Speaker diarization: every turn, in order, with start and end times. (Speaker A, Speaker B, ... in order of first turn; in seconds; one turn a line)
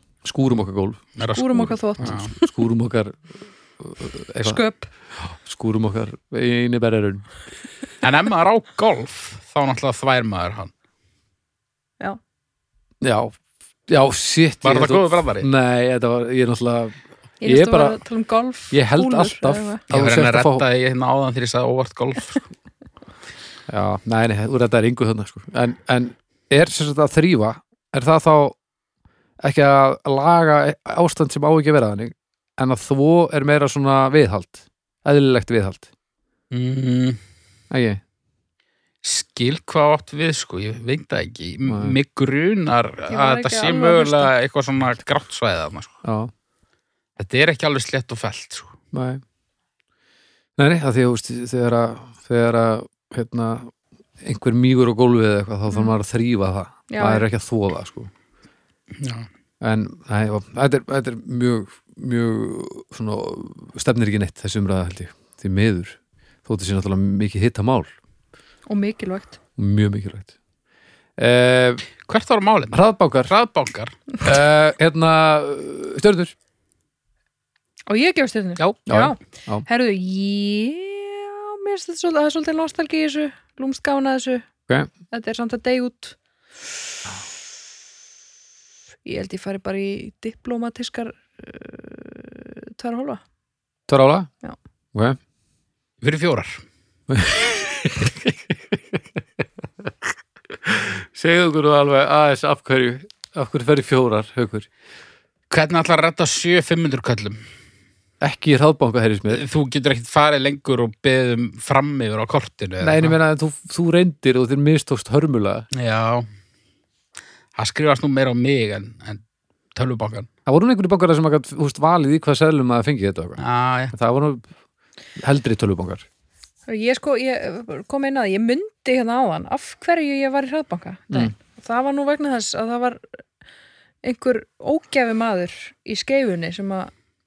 Speaker A: 0.2-1.2
Speaker B: 1.2-2.3
Speaker C: 1.3-2.5
Speaker A: 2.0-4.6
Speaker C: 4.4-4.9
Speaker A: 5.4-7.3
Speaker B: 8.0-10.7
Speaker A: 13.0-13.3
Speaker A: 13.9-18.0
Speaker B: 14.6-15.5
Speaker C: 17.4-19.8
Speaker A: 18.7-20.6
Speaker B: 19.9-22.4
Speaker A: 23.7-28.6
Speaker A: 29.4-35.9
Speaker B: 36.5-37.2
Speaker A: 37.7-38.0
Speaker B: 39.0-45.9
Speaker A: 41.6-42.0
Speaker C: 43.1-44.3
Speaker A: 46.0-46.3
Speaker B: 47.2-48.8
Speaker A: 48.9-49.2
Speaker A: 50.6-58.1
Speaker C: 56.9-57.2
Speaker B: 59.0-59.3
Speaker A: 59.6-67.9
Speaker C: 68.7-69.4
Speaker A: 69.6-70.3
Speaker A: 71.2-71.8
Speaker B: 72.0-74.0
Speaker A: 72.7-73.3
Speaker A: 74.2-76.3
Speaker C: 77.9-84.5
Speaker A: 78.9-79.6
Speaker C: 85.1-86.2
Speaker C: 89.0-93.2
Speaker A: 93.9-94.3
Speaker B: 96.0-96.6
Speaker A: 97.1-99.0
Speaker A: 100.5-104.7
Speaker B: 105.5-107.4
Speaker A: 108.2-109.5
Speaker B: 109.3-113.2
Speaker A: 112.8-115.7
Speaker B: 115.7-116.2
Speaker B: 117.5-119.2
Speaker B: 119.7-120.3
Speaker A: 120.5-123.4
Speaker B: 123.4-123.9
Speaker A: 123.9-124.5
Speaker A: 125.2-126.0
Speaker C: 126.7-133.0
Speaker C: 134.0-136.9